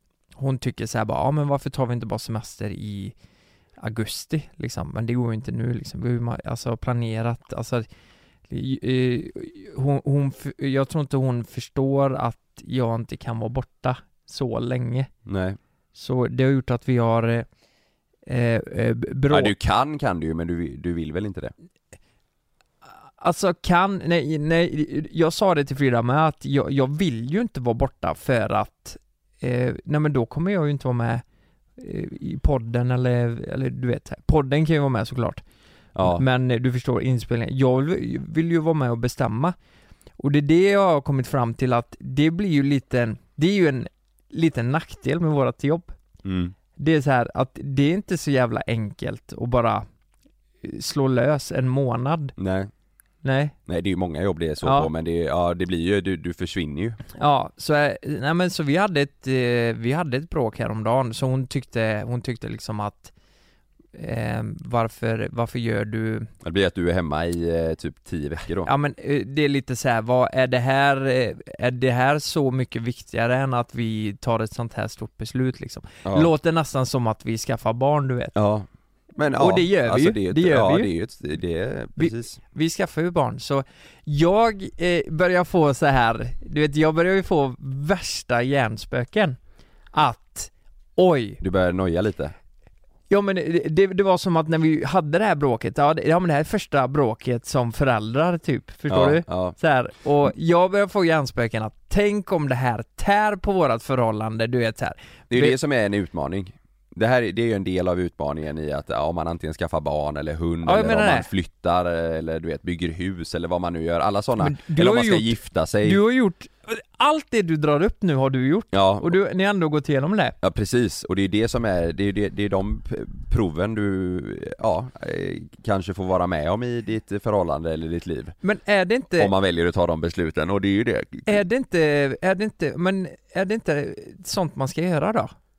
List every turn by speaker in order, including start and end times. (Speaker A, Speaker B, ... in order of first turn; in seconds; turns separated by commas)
Speaker A: 0.4-3.1, Speaker A: 3.8-7.9, Speaker A: 8.5-15.1, Speaker B: 15.3-15.6, Speaker A: 15.9-17.4, Speaker A: 18.3-19.5, Speaker B: 19.3-21.5, Speaker A: 23.2-31.2, Speaker A: 31.8-35.4, Speaker B: 36.0-36.2, Speaker A: 36.0-39.5, Speaker A: 40.2-45.9, Speaker B: 46.2-46.5, Speaker A: 46.8-49.9, Speaker A: 50.6-52.3, Speaker B: 52.4-52.7, Speaker A: 53.2-53.6, Speaker B: 53.7-57.0, Speaker A: 54.6-54.9, Speaker A: 57.1-63.1, Speaker A: 64.0-66.3, Speaker B: 66.4-68.7, Speaker A: 68.7-78.3, Speaker B: 76.0-76.3, Speaker B: 78.3-82.4, Speaker A: 79.4-80.9, Speaker A: 82.0-89.4, Speaker A: 89.9-91.4, Speaker B: 91.4-92.3, Speaker A: 93.1-105.6, Speaker B: 98.9-99.6, Speaker B: 105.3-116.0, Speaker A: 110.6-111.3, Speaker A: 114.4-120.4, Speaker B: 118.7-119.1, Speaker B: 120.4-128.4, Speaker A: 128.4-129.3, Speaker B: 129.2-131.4, Speaker A: 131.3-135.3